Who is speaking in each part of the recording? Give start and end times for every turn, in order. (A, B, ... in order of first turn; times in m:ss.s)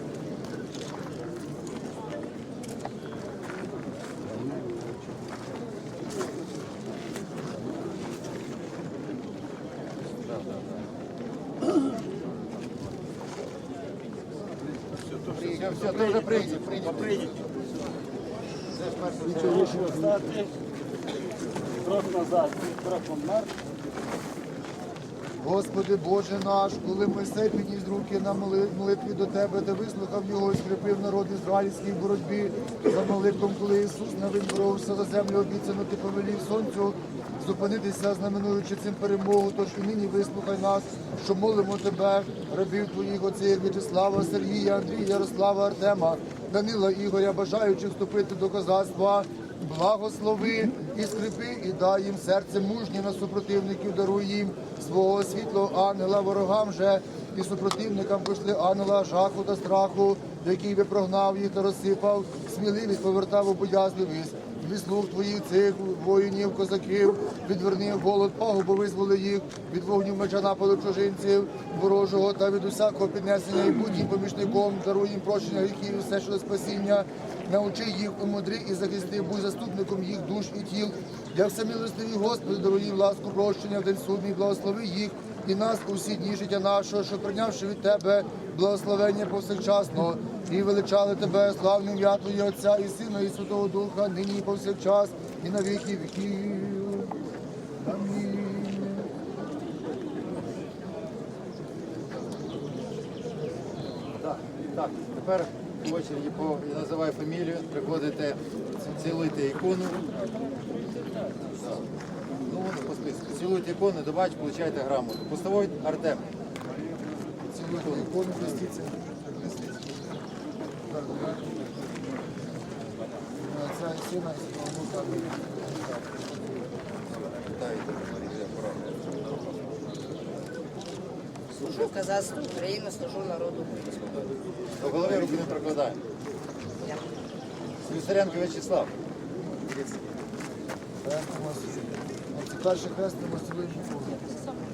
0:10.3-0:10.7 A
0:15.2-0:17.3 A
0:18.7-0:19.7 A
0:19.3-0:20.5 B
0:21.8-0:23.5 B
0:25.4-1:37.1 C
1:37.8-1:39.1 C
1:44.2-1:48.4 A
1:48.9-1:50.0 A
1:51.6-1:51.9 A
1:52.4-1:56.3 A
1:57.5-2:00.2 C
1:57.8-1:58.7 A
2:00.9-2:01.9 C
2:03.4-2:06.7 C
2:07.1-2:09.5 A
2:11.6-2:14.3 D
2:14.8-2:16.0 A
2:17.8-2:18.9 A
2:21.0-2:24.3 C